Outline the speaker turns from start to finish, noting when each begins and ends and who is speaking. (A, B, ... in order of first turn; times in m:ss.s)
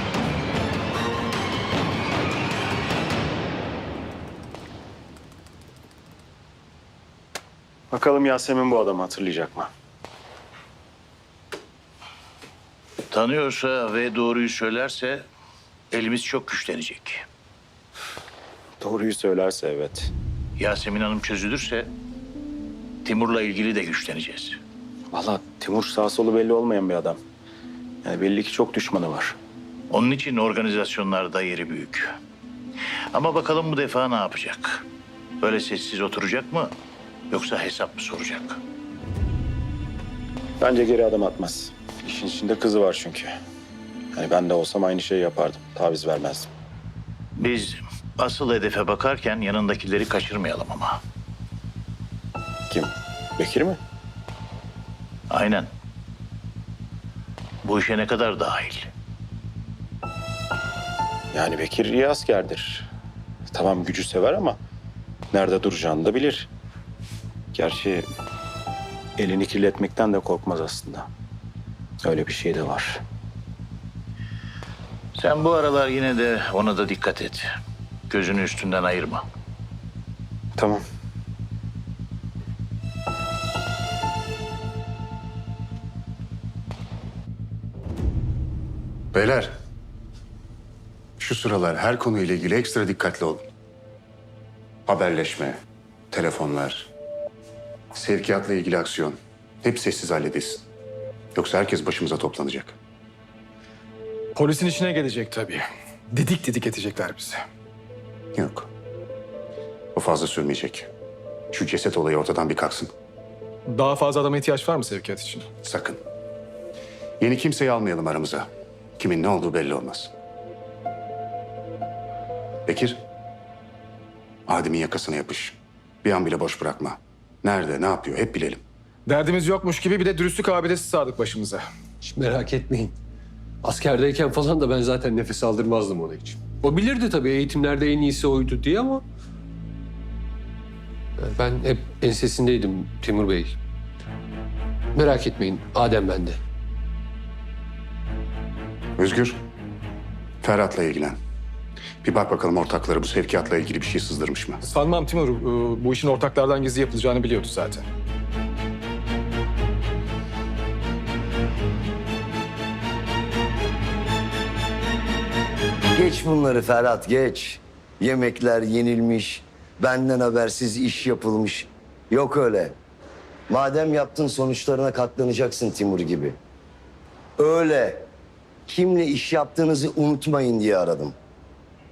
0:07.9-0:09.7 A
0:13.1-0:15.3 B
0:15.9-0:17.2 B
0:18.8-0:20.1 A
0:20.6-0:21.9 B
0:23.0-0:24.6 B
0:25.1-0:27.2 A
0:28.0-0:29.4 A
0:29.9-0:32.0 B
0:33.1-0:34.8 B
0:35.4-0:36.7 B
0:37.3-0:38.6 B
0:40.6-0:43.3 A
0:44.1-0:46.5 A
0:47.4-0:51.0 B
0:52.7-0:53.8 A
0:55.3-0:55.7 B
0:57.6-0:58.9 B
1:01.3-1:02.9 A
1:03.5-1:04.6 A
1:05.3-1:06.5 A
1:07.5-1:08.1 A
1:09.2-1:11.1 A
1:12.0-1:13.0 A
1:15.2-1:17.4 B
1:18.1-1:19.2 B
1:20.6-1:20.8 A
1:29.1-1:29.5 C
1:31.2-1:33.4 C
1:34.9-1:35.6 C
1:36.1-1:36.9 C
1:37.9-1:40.6 C
1:41.3-1:42.8 C
1:44.4-1:47.4 D
1:48.4-1:48.7 C
1:49.9-1:50.9 C
1:51.5-1:52.9 C
1:53.7-1:55.5 D
1:55.6-1:56.0 C
1:57.2-1:58.5 C
1:59.0-2:00.1 C
2:02.7-2:03.0 C
2:04.5-2:08.6 C
2:09.1-2:11.6 D
2:12.0-2:13.0 E
2:13.6-2:19.0 E
2:21.2-2:23.6 E
2:24.9-2:26.4 E
2:29.0-2:29.4 C
2:30.4-2:31.2 C
2:32.0-2:34.6 C
2:34.6-2:37.8 D
2:45.9-2:52.8 F
2:53.5-2:56.4 F
2:57.4-2:58.0 F
2:58.7-3:01.2 F